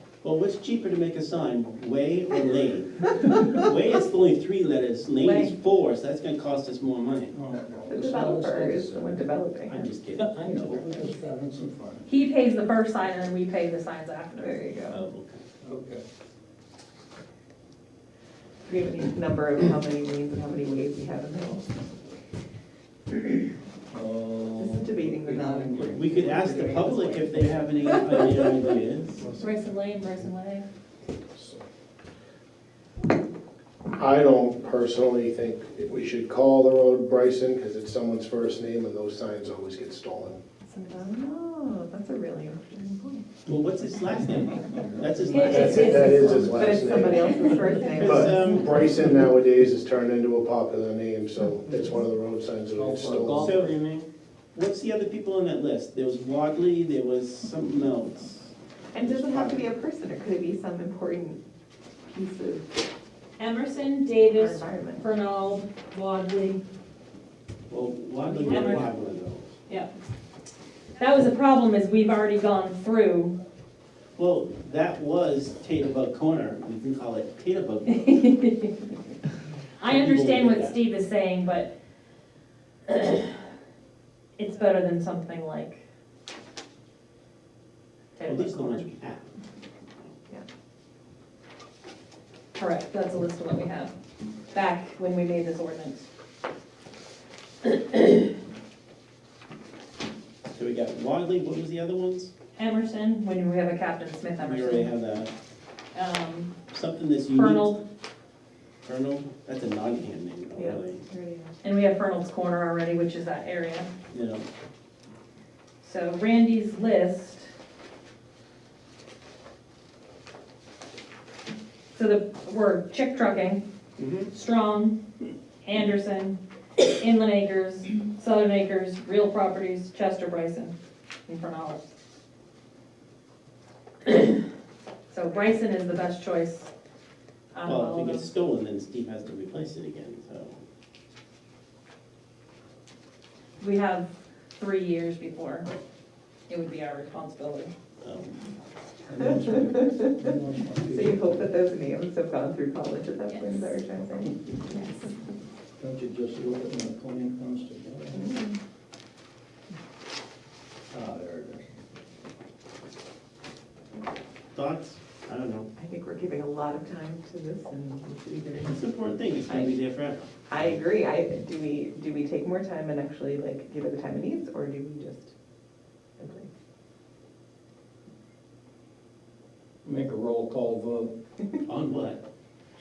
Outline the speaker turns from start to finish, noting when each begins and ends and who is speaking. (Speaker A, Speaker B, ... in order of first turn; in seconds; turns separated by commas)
Speaker A: 0.2-7.3, Speaker B: 5.2-5.5, Speaker C: 7.3-9.2, Speaker D: 7.8-9.9, Speaker A: 9.7-11.0, Speaker C: 10.2-12.1, Speaker B: 12.1-14.7, Speaker D: 14.4-15.0, Speaker A: 14.9-15.4, Speaker C: 15.6-16.0, Speaker D: 18.6-21.9, Speaker C: 23.9-26.3, Speaker D: 24.6-28.3, Speaker A: 25.9-29.3, Speaker B: 29.4-30.7, Speaker E: 31.3-31.6, Speaker E: 34.0-40.4, Speaker D: 40.6-43.3, Speaker A: 43.5-46.1, Speaker D: 45.3-48.5, Speaker E: 45.3-53.6, Speaker B: 45.3-46.6, Speaker A: 47.9-48.8, Speaker C: 52.7-54.1, Speaker A: 53.4-53.7, Speaker A: 54.5-59.7, Speaker D: 58.9-61.4, Speaker D: 62.1-62.7, Speaker B: 63.4-66.6, Speaker D: 64.3-65.1, Speaker A: 67.7-69.6, Speaker D: 68.3-68.9, Speaker B: 68.5-68.8, Speaker B: 71.0-73.4, Speaker A: 74.2-78.2, Speaker B: 77.9-78.9, Speaker B: 79.8-81.7, Speaker A: 79.8-80.8, Speaker B: 82.8-83.5, Speaker B: 84.4-85.8, Speaker B: 88.2-88.9, Speaker A: 88.2-89.3, Speaker B: 92.5-93.9, Speaker B: 94.5-96.1, Speaker B: 97.6-98.3, Speaker A: 100.5-102.3, Speaker B: 102.5-104.9, Speaker A: 104.4-105.3, Speaker B: 105.9-106.6, Speaker A: 106.7-107.7, Speaker B: 107.3-107.8, Speaker A: 108.8-111.0, Speaker D: 110.5-111.5, Speaker B: 111.6-113.9, Speaker A: 114.1-114.4, Speaker B: 115.8-117.5, Speaker B: 121.9-123.6, Speaker A: 124.0-124.3, Speaker B: 124.3-125.0, Speaker B: 125.6-130.7, Speaker B: 131.3-131.9, Speaker B: 134.0-134.4, Speaker B: 135.1-136.7, Speaker B: 137.5-138.3, Speaker A: 137.6-140.6, Speaker B: 143.6-145.7, Speaker B: 146.5-147.7, Speaker A: 148.0-148.4, Speaker C: 149.1-151.4, Speaker D: 149.7-150.1, Speaker D: 150.8-155.0, Speaker C: 155.8-158.3, Speaker D: 158.1-158.6, Speaker C: 160.9-161.6, Speaker A: 164.5-165.7, Speaker D: 165.8-168.9, Speaker A: 168.7-170.8, Speaker D: 169.5-169.8, Speaker D: 170.5-175.3, Speaker D: 176.2-176.5, Speaker C: 179.8-181.1, Speaker A: 181.6-182.2